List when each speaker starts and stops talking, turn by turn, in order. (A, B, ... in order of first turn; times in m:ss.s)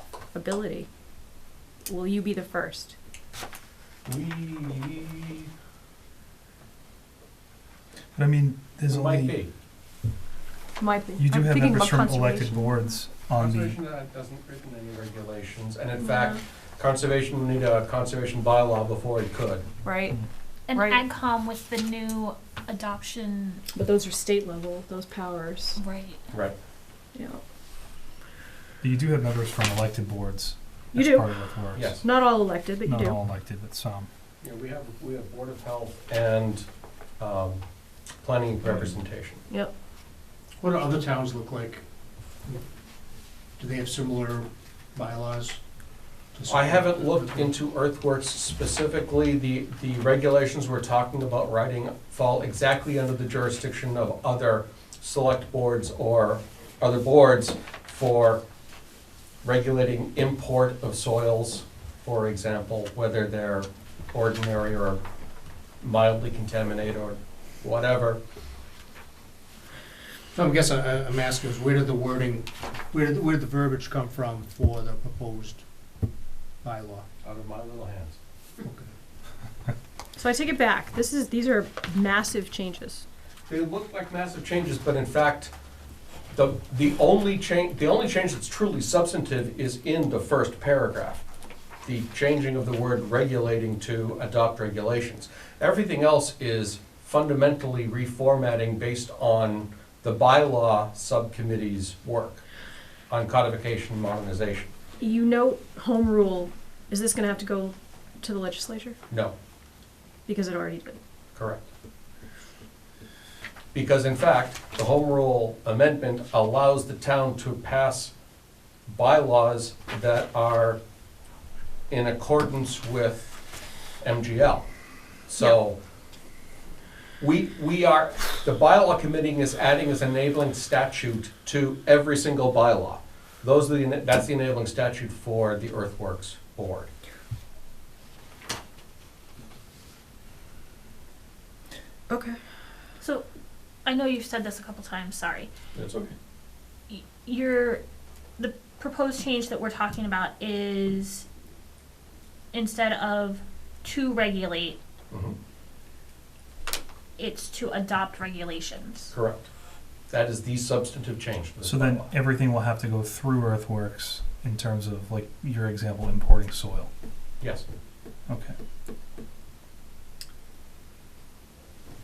0:00.3-0:00.9 A
0:01.8-0:03.0 A
0:04.0-0:05.5 B
0:08.1-0:09.4 C
0:08.9-0:09.5 B
0:10.8-0:12.7 A
0:11.2-0:13.8 C
0:13.4-0:19.6 B
0:16.0-0:16.4 A
0:19.8-0:20.2 A
0:20.7-0:23.6 D
0:20.7-0:21.0 A
0:23.7-0:25.8 A
0:25.8-0:26.3 D
0:27.1-0:27.4 A
0:28.8-0:32.0 C
0:30.9-0:31.3 A
0:31.7-0:32.0 B
0:32.0-0:33.2 A
0:32.8-0:34.1 C
0:34.4-0:36.6 B
0:37.2-0:37.6 B
0:38.2-0:39.4 B
0:40.6-0:41.8 E
0:43.6-0:45.6 E
0:46.3-0:47.5 E
0:46.5-0:58.4 B
0:59.4-1:05.0 B
1:05.8-1:08.2 B
1:10.3-1:15.6 E
1:16.6-1:17.0 E
1:17.2-1:18.2 B
1:18.6-1:18.9 E
1:20.2-1:23.0 A
1:23.5-1:25.5 B
1:26.3-1:31.2 B
1:31.8-1:42.4 B
1:43.1-1:44.7 B
1:45.0-1:49.0 A
1:50.3-1:51.0 A
1:51.3-1:51.7 B
1:53.7-1:58.1 B
1:58.9-2:00.8 B
2:01.9-2:03.3 B
2:04.0-2:04.7 B
2:05.3-2:05.8 B
2:07.2-2:16.9 B
2:22.1-2:22.4 A
2:23.0-2:23.2 D
2:23.8-2:25.5 D
2:25.7-2:26.1 B
2:26.9-2:27.8 D
2:28.4-2:31.2 D
2:32.5-2:34.8 D
2:35.1-2:35.4 B
2:37.2-2:39.1 D
2:39.1-2:39.5 B
2:40.1-2:42.1 B
2:41.6-2:46.9 C
2:47.4-2:47.6 B
2:48.3-2:48.6 C